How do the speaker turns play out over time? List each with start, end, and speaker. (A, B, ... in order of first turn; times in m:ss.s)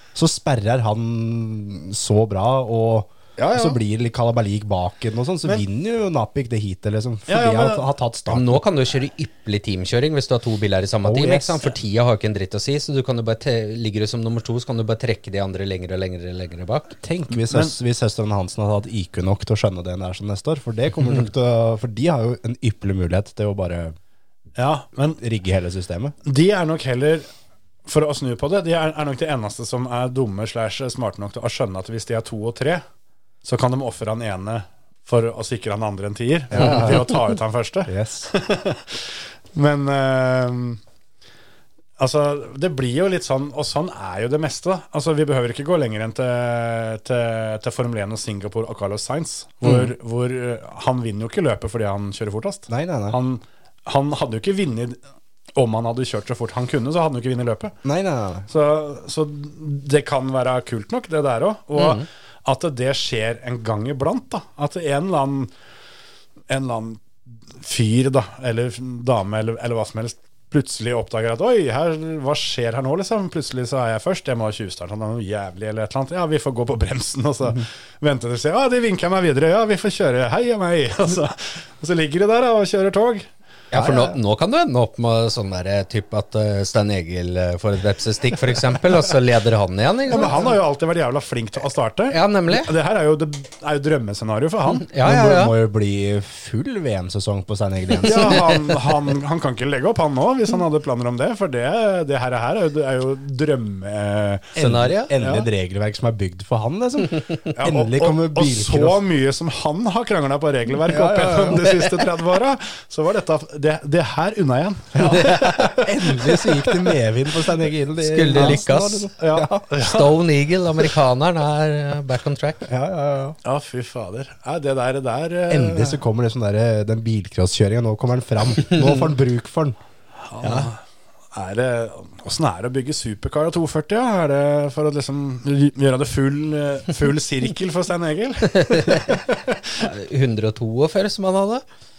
0:00.2-0:08.6 A
0:03.4-0:03.8 B
0:07.3-0:07.9 B
0:08.3-0:17.0 C
0:11.0-0:11.6 A
0:17.0-0:24.0 A
0:17.4-0:17.8 B
0:24.6-0:25.2 B
0:25.2-0:26.1 A
0:26.2-0:27.3 B
0:27.9-0:32.8 B
0:33.4-0:40.8 B
0:36.5-0:37.1 A
0:36.6-0:37.0 C
0:37.9-0:38.3 A
0:42.0-0:55.0 B
0:49.6-0:49.9 A
0:52.7-0:53.2 A
0:55.6-0:57.8 B
0:57.8-0:58.5 A
0:58.5-1:05.5 B
1:01.8-1:02.0 C
1:06.5-1:23.3 B
1:23.7-1:30.5 C
1:23.7-1:24.2 A
1:30.1-1:34.9 B
1:32.1-1:32.7 C
1:34.8-1:35.5 C
1:35.0-1:38.6 A
1:38.0-1:44.6 B
1:44.6-1:45.1 C
1:44.6-1:49.0 A
1:45.2-1:45.5 B
1:47.5-1:56.6 B
1:50.9-1:51.9 A
1:55.0-1:59.6 A
1:55.0-1:55.8 C
1:58.0-1:59.1 C
1:58.3-1:58.6 B
1:59.2-2:00.2 B
1:59.8-2:02.7 C
2:02.7-2:03.4 A
2:03.4-2:06.0 B
2:05.5-2:09.8 A
2:10.3-2:10.8 B
2:11.3-2:19.8 B
2:18.5-2:19.2 C
2:19.8-2:21.6 C